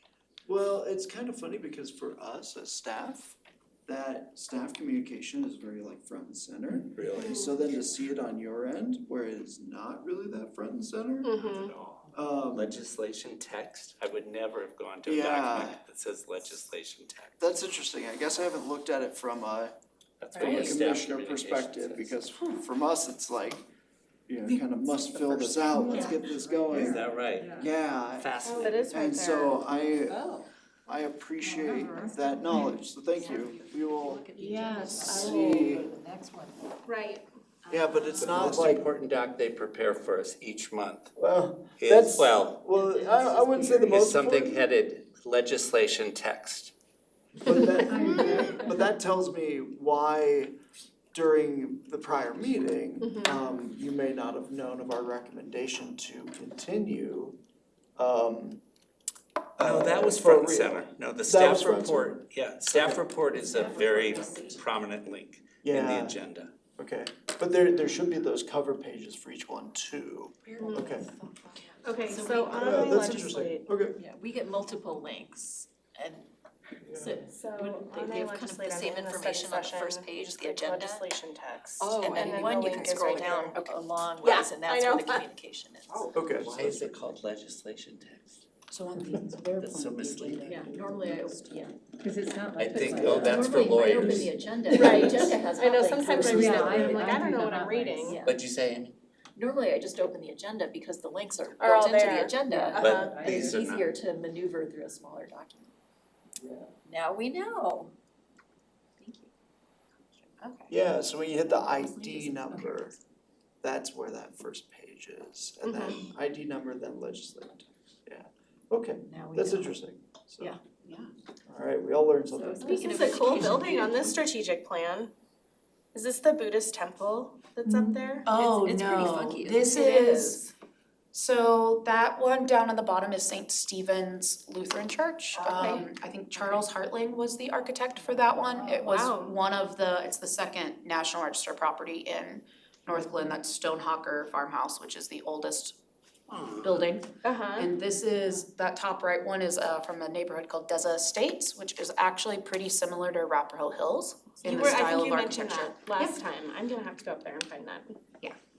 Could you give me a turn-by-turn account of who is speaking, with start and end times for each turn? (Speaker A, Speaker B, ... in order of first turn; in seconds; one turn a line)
Speaker A: 0.5-11.3
Speaker B: 6.9-7.4
Speaker C: 7.2-7.5
Speaker C: 11.2-11.7
Speaker B: 11.3-17.4
Speaker A: 12.1-12.7
Speaker A: 15.0-15.8
Speaker A: 17.4-19.7
Speaker B: 20.2-22.2
Speaker A: 20.4-23.6
Speaker A: 24.3-30.3
Speaker D: 25.4-26.2
Speaker E: 25.8-27.7
Speaker B: 26.7-27.6
Speaker B: 28.2-28.8
Speaker C: 28.4-29.6
Speaker A: 30.9-34.3
Speaker E: 31.4-32.7
Speaker D: 33.1-35.1
Speaker E: 34.4-36.1
Speaker C: 34.8-35.4
Speaker A: 34.8-35.9
Speaker D: 36.0-36.4
Speaker C: 36.9-37.2
Speaker A: 37.7-38.9
Speaker E: 37.7-38.4
Speaker B: 38.2-41.1
Speaker A: 41.1-44.6
Speaker B: 41.8-42.7
Speaker E: 43.0-43.8
Speaker B: 43.9-46.7
Speaker A: 47.4-50.5
Speaker E: 47.9-48.6
Speaker A: 51.1-57.4
Speaker C: 53.0-53.4
Speaker A: 58.0-58.6
Speaker A: 59.6-63.0
Speaker B: 59.6-66.5
Speaker D: 63.4-64.6
Speaker A: 65.6-66.2
Speaker A: 66.8-71.1
Speaker D: 70.5-73.2
Speaker C: 70.6-71.0
Speaker C: 71.8-73.7
Speaker A: 72.5-74.0
Speaker D: 73.9-76.3
Speaker A: 76.8-77.2
Speaker D: 76.9-81.0
Speaker C: 77.3-83.7
Speaker D: 81.8-86.1
Speaker F: 82.8-83.4
Speaker C: 84.2-85.2
Speaker B: 85.9-88.4
Speaker A: 86.1-86.7
Speaker F: 88.7-91.7
Speaker B: 89.1-90.7
Speaker D: 90.7-91.9
Speaker E: 92.0-95.1
Speaker B: 92.6-94.4
Speaker D: 92.7-96.8
Speaker C: 94.7-98.2
Speaker E: 96.2-98.2
Speaker A: 96.6-97.1
Speaker D: 98.0-98.3
Speaker B: 98.2-99.0
Speaker D: 99.3-105.7
Speaker C: 101.6-103.4
Speaker E: 102.5-103.6
Speaker B: 102.8-103.9
Speaker A: 106.4-106.7
Speaker D: 106.8-107.9
Speaker D: 109.0-109.3
Speaker F: 110.4-110.7
Speaker A: 110.7-113.0
Speaker D: 111.5-112.8
Speaker A: 113.6-120.5
Speaker C: 115.6-116.0
Speaker D: 119.0-119.8
Speaker F: 120.8-121.1
Speaker A: 121.5-123.3
Speaker D: 122.3-124.3
Speaker C: 122.6-125.1
Speaker C: 125.9-128.3
Speaker F: 128.2-130.4
Speaker D: 128.3-129.7
Speaker C: 129.6-130.5
Speaker F: 131.1-145.8
Speaker C: 135.4-135.9
Speaker C: 138.8-139.3
Speaker B: 146.3-146.8
Speaker F: 146.6-147.1
Speaker C: 147.2-147.7
Speaker F: 147.6-156.2
Speaker C: 154.4-157.9